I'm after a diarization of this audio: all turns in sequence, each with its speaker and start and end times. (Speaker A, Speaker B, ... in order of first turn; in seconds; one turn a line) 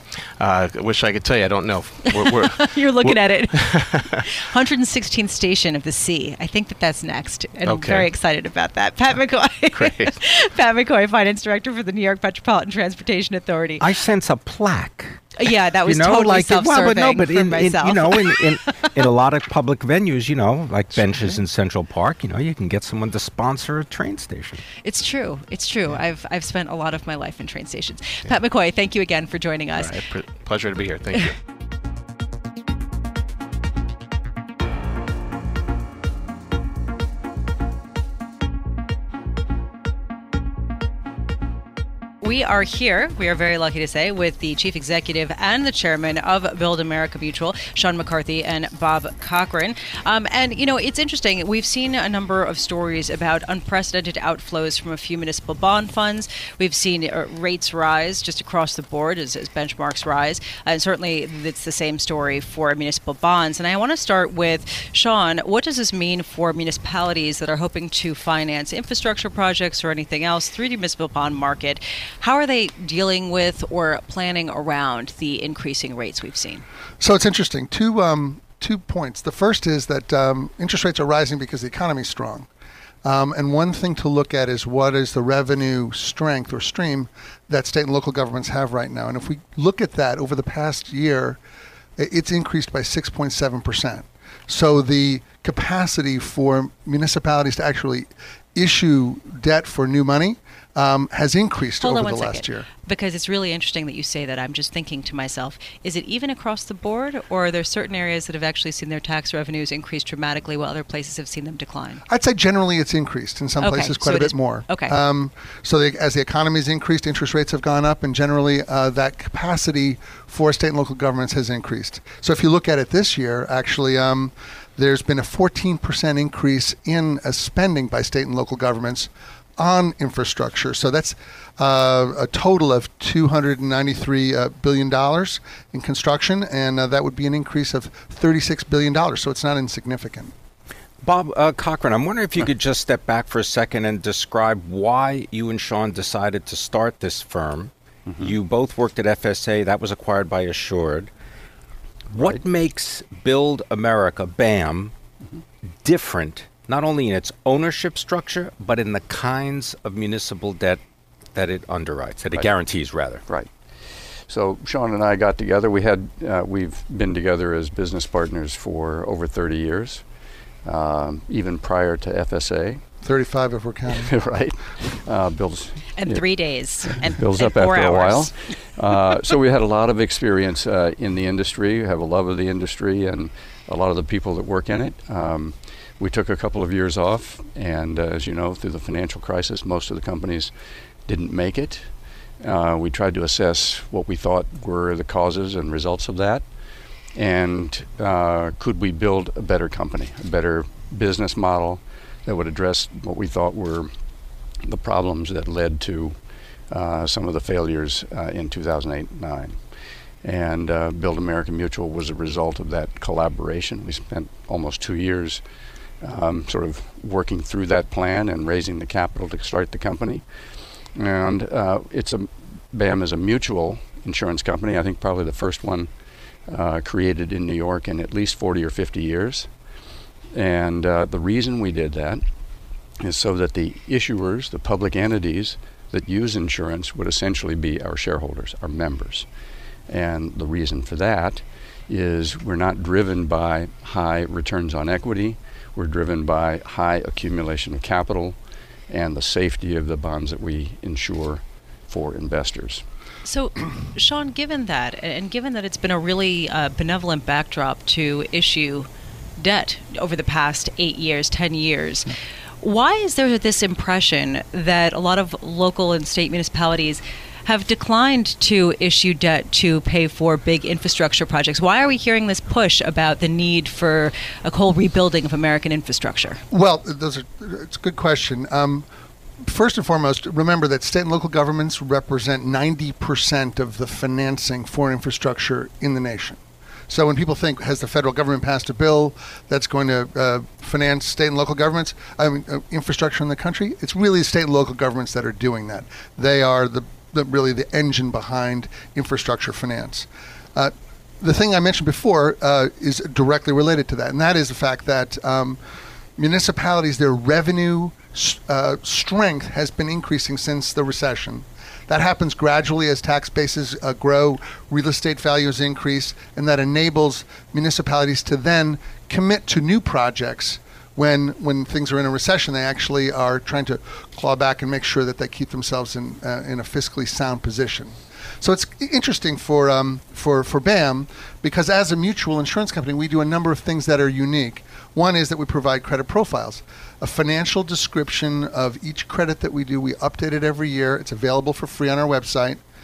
Speaker A: 0.4-4.2
Speaker B: 2.1-13.8
Speaker A: 7.6-8.1
Speaker A: 9.7-10.1
Speaker C: 13.8-15.3
Speaker B: 15.4-19.0
Speaker C: 15.8-24.6
Speaker B: 24.8-30.0
Speaker A: 29.7-31.4
Speaker B: 42.2-76.7
Speaker D: 77.0-82.5
Speaker D: 83.0-91.4
Speaker D: 92.0-102.7
Speaker B: 101.8-112.0
Speaker D: 112.1-140.3
Speaker B: 113.6-115.0
Speaker C: 141.0-151.1
Speaker C: 152.1-154.9
Speaker C: 155.8-160.8
Speaker C: 161.3-163.2
Speaker E: 163.3-163.6
Speaker E: 164.2-170.0
Speaker E: 170.6-172.8
Speaker D: 173.0-174.1
Speaker E: 173.9-190.5
Speaker B: 175.9-178.6
Speaker E: 191.1-196.5
Speaker E: 197.1-203.9
Speaker E: 204.6-209.7
Speaker E: 210.2-215.4
Speaker E: 216.0-220.3
Speaker E: 220.9-225.9
Speaker E: 226.5-229.5
Speaker E: 230.3-232.2
Speaker E: 233.0-239.3
Speaker E: 239.9-248.4
Speaker E: 248.9-252.8
Speaker B: 253.2-276.4
Speaker D: 276.5-278.8
Speaker D: 279.4-286.4
Speaker D: 286.9-305.6
Speaker D: 306.2-342.6